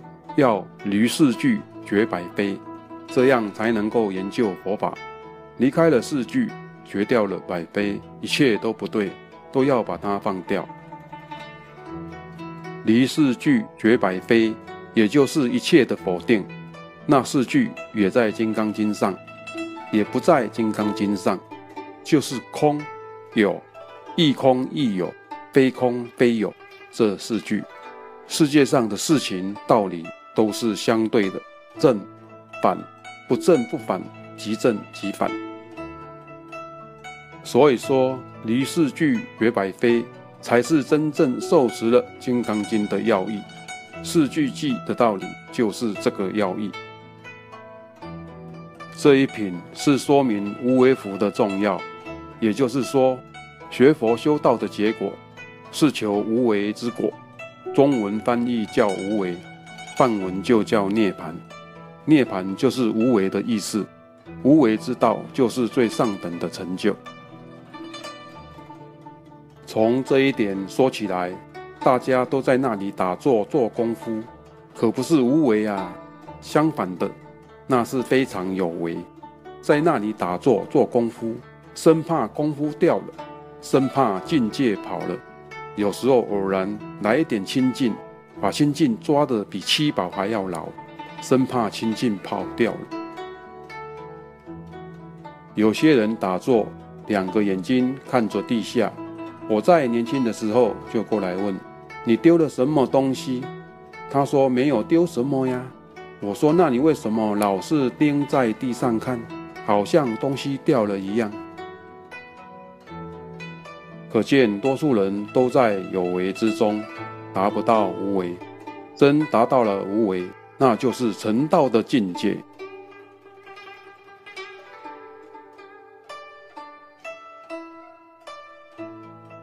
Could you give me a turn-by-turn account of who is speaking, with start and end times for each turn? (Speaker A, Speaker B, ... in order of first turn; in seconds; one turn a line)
Speaker A: 0.4-5.0
Speaker A: 5.6-10.7
Speaker A: 12.8-16.5
Speaker A: 17.1-19.2
Speaker A: 19.9-21.4
Speaker A: 22.0-23.6
Speaker A: 24.2-27.7
Speaker A: 28.3-32.1
Speaker A: 32.6-35.4
Speaker A: 37.4-43.5
Speaker A: 44.0-46.8
Speaker A: 49.0-51.8
Speaker A: 52.4-55.2
Speaker A: 55.7-57.1
Speaker A: 57.7-59.4
Speaker A: 60.0-61.4
Speaker A: 62.1-63.9
Speaker A: 64.4-67.0
Speaker A: 69.7-77.1
Speaker A: 77.7-79.1
Speaker A: 79.6-85.2
Speaker A: 85.8-92.9
Speaker A: 95.5-99.0
Speaker A: 99.5-103.5
Speaker A: 104.1-111.4
Speaker A: 114.1-118.4
Speaker A: 119.0-122.4